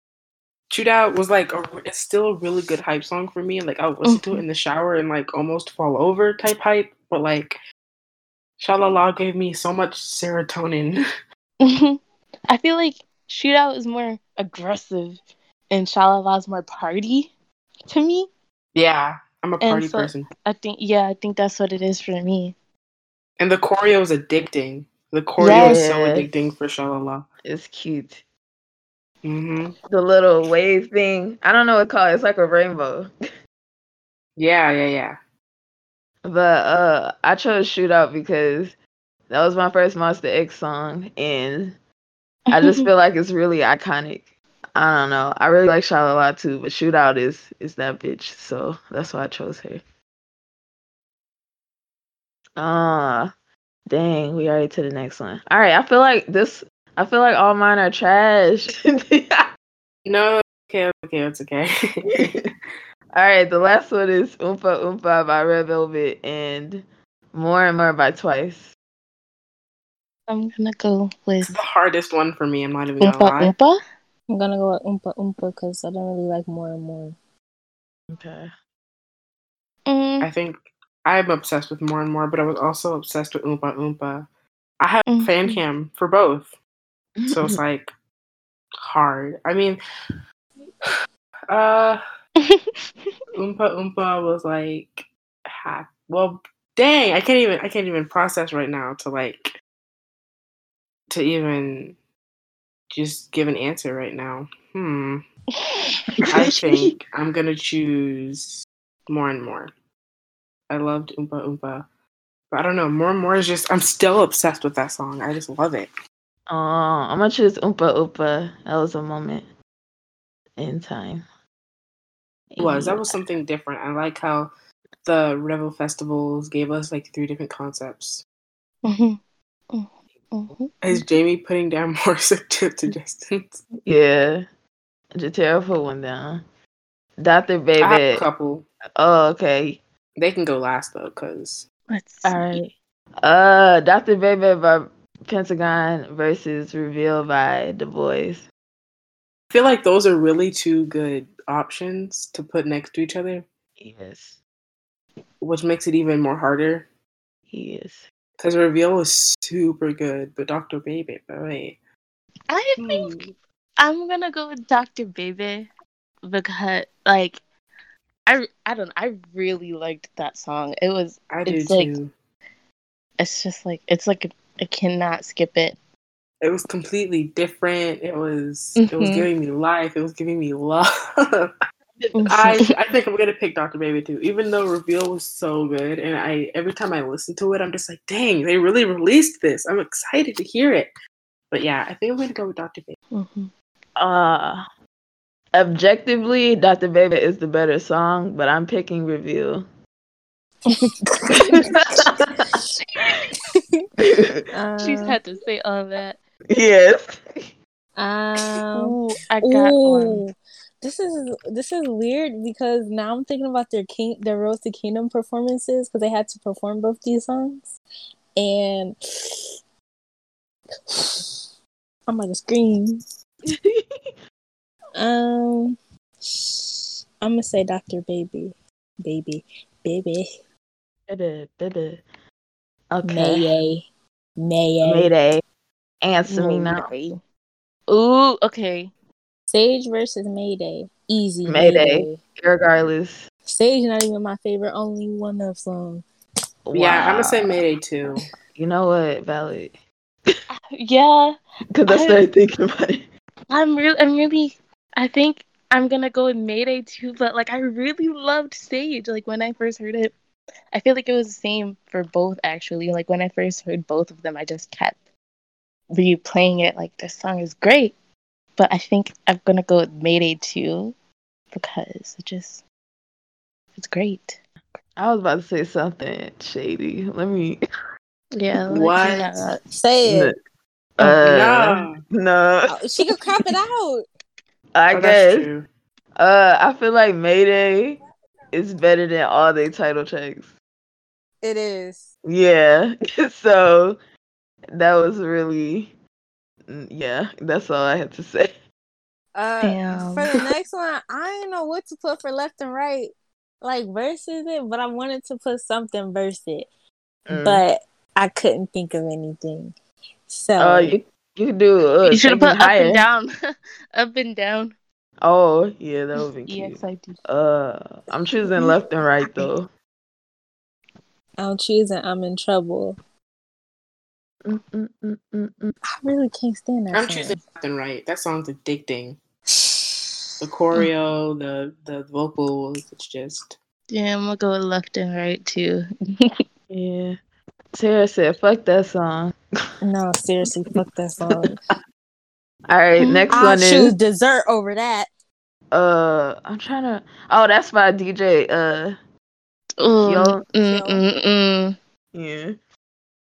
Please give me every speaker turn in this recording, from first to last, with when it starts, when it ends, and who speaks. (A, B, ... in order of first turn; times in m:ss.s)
0:00.7-0:07.6 A
0:04.0-0:04.4 B
0:08.6-0:11.0 A
0:11.6-0:17.3 B
0:17.9-0:18.3 B
0:18.7-0:20.3 A
0:19.6-0:22.5 B
0:23.4-0:27.2 A
0:25.4-0:25.8 B
0:25.4-0:26.3 C
0:27.4-0:28.2 C
0:29.2-0:29.7 A
0:29.9-0:33.1 C
0:34.4-0:35.2 A
0:36.2-0:38.8 C
0:39.3-0:41.8 C
0:42.5-0:42.9 B
0:42.5-0:49.8 C
0:52.6-0:53.3 C
0:53.9-0:59.4 C
1:00.0-1:02.5 A
1:03.1-1:08.7 C
1:10.3-1:11.5 B
1:11.4-1:13.5 A
1:13.0-1:13.8 B
1:14.3-1:17.2 D
1:18.1-1:18.5 C
1:19.9-1:20.3 B
1:20.2-1:24.2 A
1:24.8-1:26.5 A
1:25.1-1:25.6 B
1:27.2-1:27.6 C
1:27.3-1:27.9 A
1:28.8-1:29.8 A
1:31.5-1:32.0 A
1:32.4-1:32.6 B
1:33.3-1:39.5 A
1:41.1-1:42.0 A
1:42.9-1:45.2 A
1:45.7-1:46.1 B
1:46.2-1:46.9 C
1:46.3-1:49.7 A
1:50.7-1:51.8 A
1:52.5-1:55.9 A
1:56.5-1:59.4 C
2:00.6-2:01.2 C
2:02.5-2:03.2 C
2:02.6-2:04.5 A
2:05.0-2:08.2 A
2:08.8-2:09.2 B
2:09.7-2:11.0 B
2:10.8-2:13.6 A
2:13.8-2:14.4 C
2:15.1-2:16.4 C
2:17.2-2:18.2 C
2:17.8-2:18.6 A
2:19.0-2:19.8 C
2:20.2-2:21.6 A
2:21.9-2:22.6 B
2:22.2-2:28.4 C
2:29.5-2:33.4 A
2:33.8-2:34.4 C
2:35.4-2:36.9 A
2:37.5-2:38.0 C
2:38.4-2:41.8 A
2:42.5-2:43.2 B
2:42.8-2:43.3 A
2:43.8-2:45.7 B
2:46.2-2:47.4 B
2:48.3-2:52.0 B
2:51.3-2:52.1 A
2:53.2-2:55.8 B
2:56.4-3:01.5 A
2:58.8-2:59.2 B
3:02.0-3:02.6 C
3:02.1-3:02.6 B
3:02.3-3:10.9 A
3:11.5-3:13.0 A
3:13.1-3:13.5 B
3:14.0-3:14.6 C
3:15.5-3:19.6 C
3:21.2-3:22.0 D
3:21.3-3:23.2 C
3:24.0-3:24.4 C
3:24.5-3:25.2 D
3:24.8-3:26.2 B
3:26.5-3:27.5 C
3:28.0-3:37.7 D
3:28.7-3:30.2 B
3:38.4-3:39.0 D
3:40.9-3:41.3 D
3:42.1-3:43.0 D
3:43.5-3:44.1 C
3:45.0-3:50.4 D
3:51.1-3:52.0 C
3:52.9-3:53.5 C
3:53.0-3:53.8 D
3:54.4-3:55.1 D
3:54.8-3:55.4 C
3:56.0-3:56.9 C
3:56.3-3:57.2 B
3:57.9-3:58.9 B
3:59.5-4:02.2 D
4:01.4-4:03.2 C
4:03.4-4:06.0 D
4:06.6-4:07.5 C
4:06.7-4:08.2 A
4:08.6-4:10.4 C
4:10.5-4:11.4 B
4:11.7-4:13.1 C
4:11.9-4:12.2 B
4:13.5-4:20.1 B
4:20.7-4:25.0 B
4:25.9-4:27.9 B
4:28.6-4:30.9 B
4:31.5-4:32.6 B
4:33.8-4:34.4 B
4:35.0-4:37.6 C
4:38.3-4:39.6 B
4:38.7-4:39.4 A
4:39.7-4:40.3 D
4:40.0-4:40.4 C
4:41.0-4:43.2 C
4:41.0-4:42.0 A
4:42.7-4:44.0 D
4:44.7-4:45.5 C
4:44.9-4:45.6 A
4:46.2-4:48.0 C
4:48.5-4:50.5 C
4:51.4-4:52.1 D
4:52.2-4:54.0 C
4:54.7-4:55.9 C
4:56.7-4:58.5 C
4:59.3-5:03.1 D
4:59.6-5:00.2 B
5:03.6-5:06.7 D
5:07.3-5:07.6 C
5:07.3-5:09.7 D
5:10.3-5:11.0 D
5:10.6-5:13.0 C
5:12.0-5:13.3 B
5:13.9-5:14.7 B
5:15.2-5:19.7 C
5:16.4-5:17.2 B
5:18.5-5:18.8 D
5:21.4-5:23.0 D
5:24.4-5:25.8 C
5:25.9-5:27.4 D
5:26.9-5:29.2 A
5:30.4-5:33.6 A
5:33.9-5:36.3 B
5:36.7-5:37.2 C
5:37.7-5:39.4 C
5:39.8-5:41.6 D
5:42.7-5:43.9 C
5:43.0-5:43.3 B
5:43.3-5:45.1 D
5:45.7-5:49.0 C
5:49.8-5:51.8 B
5:50.0-5:50.4 C
5:50.6-5:51.0 D
5:52.1-5:52.6 C